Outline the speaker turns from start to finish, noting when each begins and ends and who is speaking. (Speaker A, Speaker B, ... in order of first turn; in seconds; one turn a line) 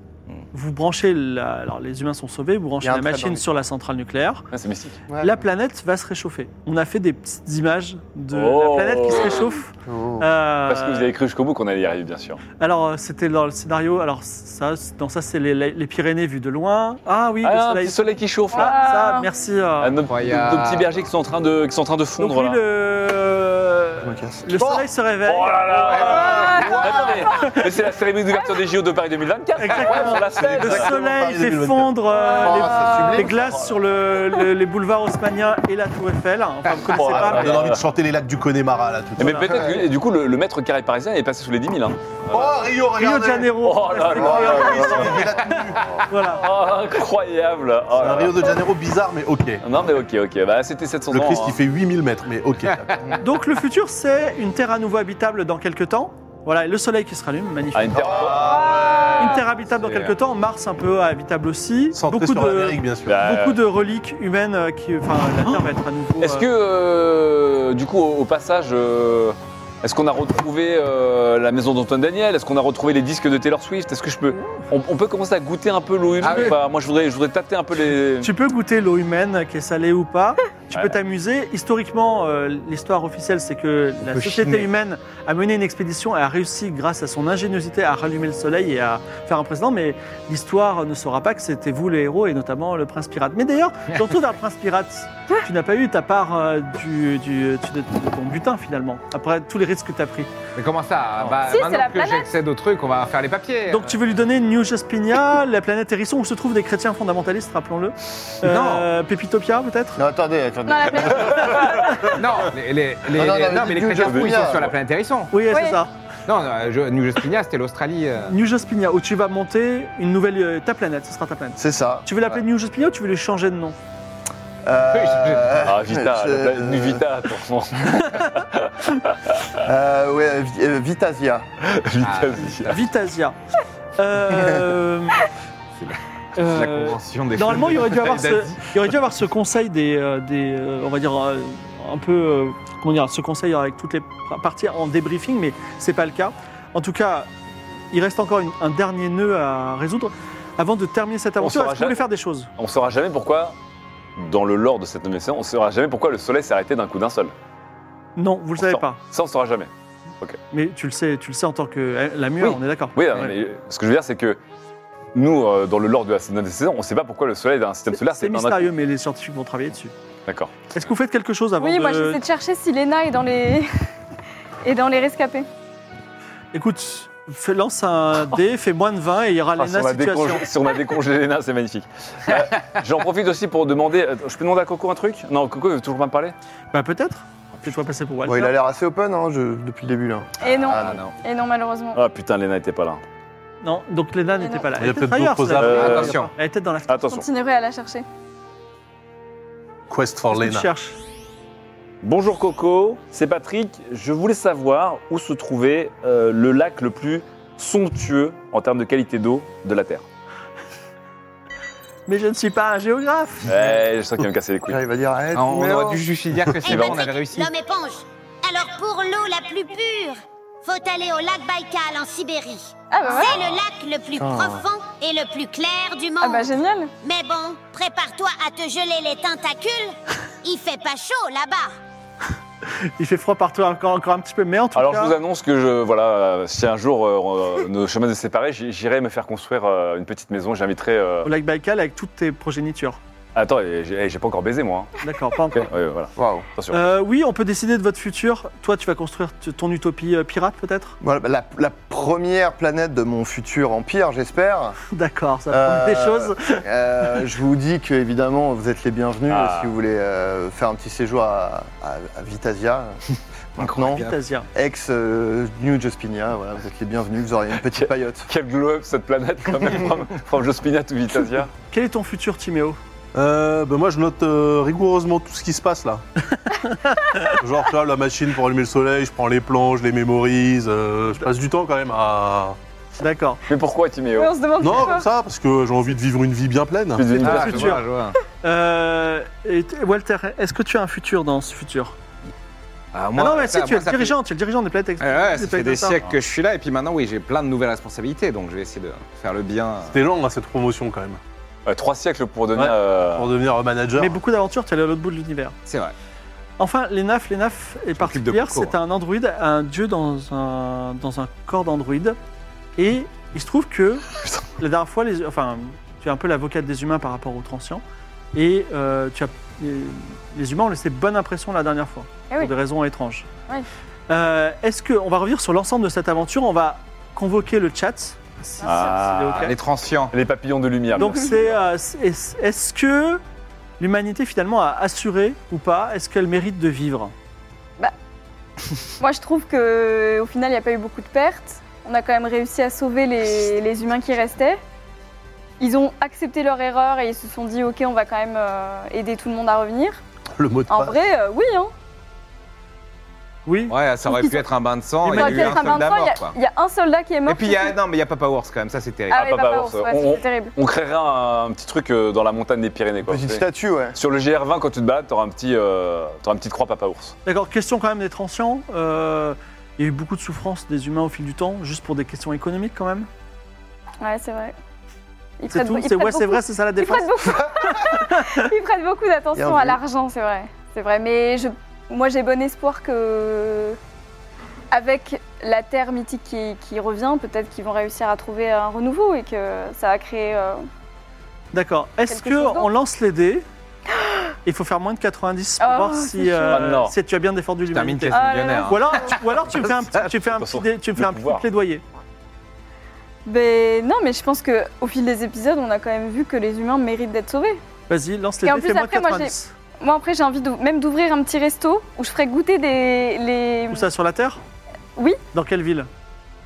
Speaker A: 0.5-4.5
Speaker B: 2.8-3.4
Speaker C: 4.5-5.0
Speaker B: 5.1-5.4
Speaker A: 5.2-11.1
Speaker C: 8.3-9.4
Speaker B: 9.9-10.2
Speaker C: 10.7-12.4
Speaker A: 12.6-20.0
Speaker C: 17.4-18.7
Speaker D: 18.5-19.3
Speaker C: 19.8-22.6
Speaker E: 20.1-21.0
Speaker A: 22.2-26.4
Speaker B: 24.0-24.8
Speaker C: 25.2-30.9
Speaker D: 25.9-27.6
Speaker B: 26.6-27.1
Speaker A: 27.3-27.6
Speaker D: 28.3-28.6
Speaker A: 29.6-37.7
Speaker F: 29.9-32.0
Speaker D: 32.1-33.3
Speaker B: 32.2-33.8
Speaker C: 36.9-37.8
Speaker F: 37.1-39.7
Speaker C: 39.2-42.6
Speaker A: 39.2-39.6
Speaker B: 39.4-39.9
Speaker F: 42.3-45.8
Speaker A: 43.0-45.5
Speaker C: 43.6-45.2
Speaker B: 44.1-46.0
Speaker A: 46.1-46.5
Speaker C: 46.4-48.6
Speaker F: 48.0-49.6
Speaker C: 49.6-51.6
Speaker F: 51.1-52.9
Speaker E: 52.6-53.2
Speaker A: 53.2-58.1
Speaker C: 57.7-59.0
Speaker B: 57.9-58.8
Speaker F: 58.1-59.1
Speaker E: 59.1-60.1
Speaker A: 59.2-66.5
Speaker F: 61.9-63.2
Speaker C: 63.1-63.6
Speaker C: 66.2-78.3
Speaker E: 76.2-76.6
Speaker A: 76.2-76.6
Speaker A: 78.2-100.3
Speaker E: 84.1-84.7
Speaker E: 100.5-103.9
Speaker D: 101.4-102.3
Speaker A: 103.7-110.0
Speaker E: 108.4-108.9
Speaker B: 110.0-111.9
Speaker D: 110.6-111.8
Speaker C: 111.3-111.8
Speaker A: 111.6-112.0
Speaker E: 112.0-115.4
Speaker B: 113.1-114.7
Speaker C: 113.9-114.6
Speaker A: 115.3-115.9
Speaker D: 115.5-115.8
Speaker E: 116.3-118.3
Speaker A: 118.2-123.8
Speaker B: 121.6-122.0
Speaker B: 124.6-127.0
Speaker E: 124.9-125.6
Speaker C: 125.6-129.3
Speaker B: 129.6-131.4
Speaker C: 131.6-132.8
Speaker E: 132.0-132.8
Speaker A: 132.7-133.3
Speaker A: 134.0-135.2
Speaker E: 135.8-138.7
Speaker A: 136.3-147.3
Speaker A: 147.9-152.5
Speaker C: 151.4-152.0
Speaker C: 152.6-153.5
Speaker C: 154.2-157.3
Speaker A: 158.2-159.0
Speaker C: 158.6-159.7
Speaker A: 160.5-163.3
Speaker C: 162.4-164.4
Speaker C: 165.1-168.7
Speaker A: 167.9-169.9
Speaker C: 170.3-170.7
Speaker A: 170.7-172.2
Speaker D: 171.6-173.7
Speaker D: 174.6-175.5
Speaker A: 176.5-180.4
Speaker C: 179.6-186.3
Speaker A: 186.7-188.5
Speaker B: 188.2-191.0
Speaker D: 190.4-192.0
Speaker E: 190.4-191.1
Speaker C: 191.9-193.0
Speaker A: 193.6-197.1
Speaker D: 194.4-194.7
Speaker F: 194.8-196.1
Speaker C: 195.6-196.2
Speaker E: 195.8-196.3
Speaker C: 196.9-197.3
Speaker D: 197.1-198.0
Speaker F: 199.9-200.7
Speaker A: 200.3-201.0
Speaker C: 202.0-210.0
Speaker A: 212.1-213.5
Speaker C: 213.4-214.8
Speaker B: 214.7-216.0
Speaker E: 215.3-217.5
Speaker G: 216.6-231.8
Speaker C: 216.6-217.0
Speaker D: 222.9-223.4
Speaker B: 224.2-224.6
Speaker D: 226.2-226.9
Speaker A: 232.8-235.1
Speaker C: 234.7-241.3
Speaker A: 241.2-243.0
Speaker C: 243.3-245.0
Speaker A: 245.0-245.7
Speaker C: 245.5-246.9
Speaker B: 246.2-246.4
Speaker A: 246.7-251.0
Speaker B: 251.0-254.8
Speaker A: 254.9-256.6
Speaker B: 255.5-262.9
Speaker C: 259.3-259.7
Speaker B: 263.6-268.2
Speaker E: 263.6-264.2
Speaker A: 263.9-264.5
Speaker C: 267.7-271.5
Speaker A: 271.7-272.8
Speaker F: 273.1-276.0
Speaker A: 276.3-277.3
Speaker F: 277.3-282.6
Speaker A: 283.0-283.4
Speaker C: 283.5-284.3
Speaker D: 284.1-285.1
Speaker F: 284.6-287.2
Speaker C: 286.9-287.8
Speaker E: 287.1-288.2
Speaker A: 287.2-287.8
Speaker A: 288.4-291.9
Speaker E: 292.9-294.1
Speaker A: 293.1-296.0
Speaker E: 295.0-300.0
Speaker F: 299.9-301.2
Speaker C: 301.6-303.3
Speaker F: 302.6-304.2
Speaker A: 304.0-305.5
Speaker E: 305.6-305.9
Speaker A: 306.6-312.2
Speaker E: 308.0-308.7
Speaker A: 312.8-314.1
Speaker A: 314.6-317.8
Speaker A: 318.3-323.3
Speaker A: 324.1-329.6
Speaker D: 328.6-328.9
Speaker C: 328.6-329.5
Speaker E: 329.3-330.1
Speaker C: 330.1-331.6
Speaker A: 330.9-333.2
Speaker A: 333.8-337.1
Speaker D: 339.0-344.6
Speaker D: 345.6-350.0
Speaker F: 350.4-351.0
Speaker D: 350.7-351.7
Speaker A: 353.4-353.7
Speaker E: 353.7-356.3
Speaker D: 354.0-354.4
Speaker A: 355.0-355.8
Speaker D: 355.0-357.8
Speaker E: 357.3-359.2
Speaker D: 359.1-360.5
Speaker C: 359.1-363.4
Speaker B: 363.1-364.0
Speaker C: 363.9-367.1
Speaker A: 367.2-373.1
Speaker D: 374.0-374.5
Speaker D: 375.4-383.8
Speaker A: 375.5-378.5
Speaker B: 377.4-377.8
Speaker B: 379.3-379.8
Speaker D: 384.7-390.6
Speaker A: 391.5-393.4
Speaker D: 392.1-392.7
Speaker D: 393.9-394.3
Speaker A: 394.4-401.8
Speaker D: 395.6-396.8
Speaker C: 396.5-396.9
Speaker E: 397.7-400.1
Speaker D: 398.1-399.0
Speaker C: 400.4-401.4
Speaker D: 403.2-407.6
Speaker A: 407.9-409.5
Speaker D: 408.4-413.9
Speaker A: 413.7-414.4
Speaker D: 414.9-415.2
Speaker A: 415.3-415.9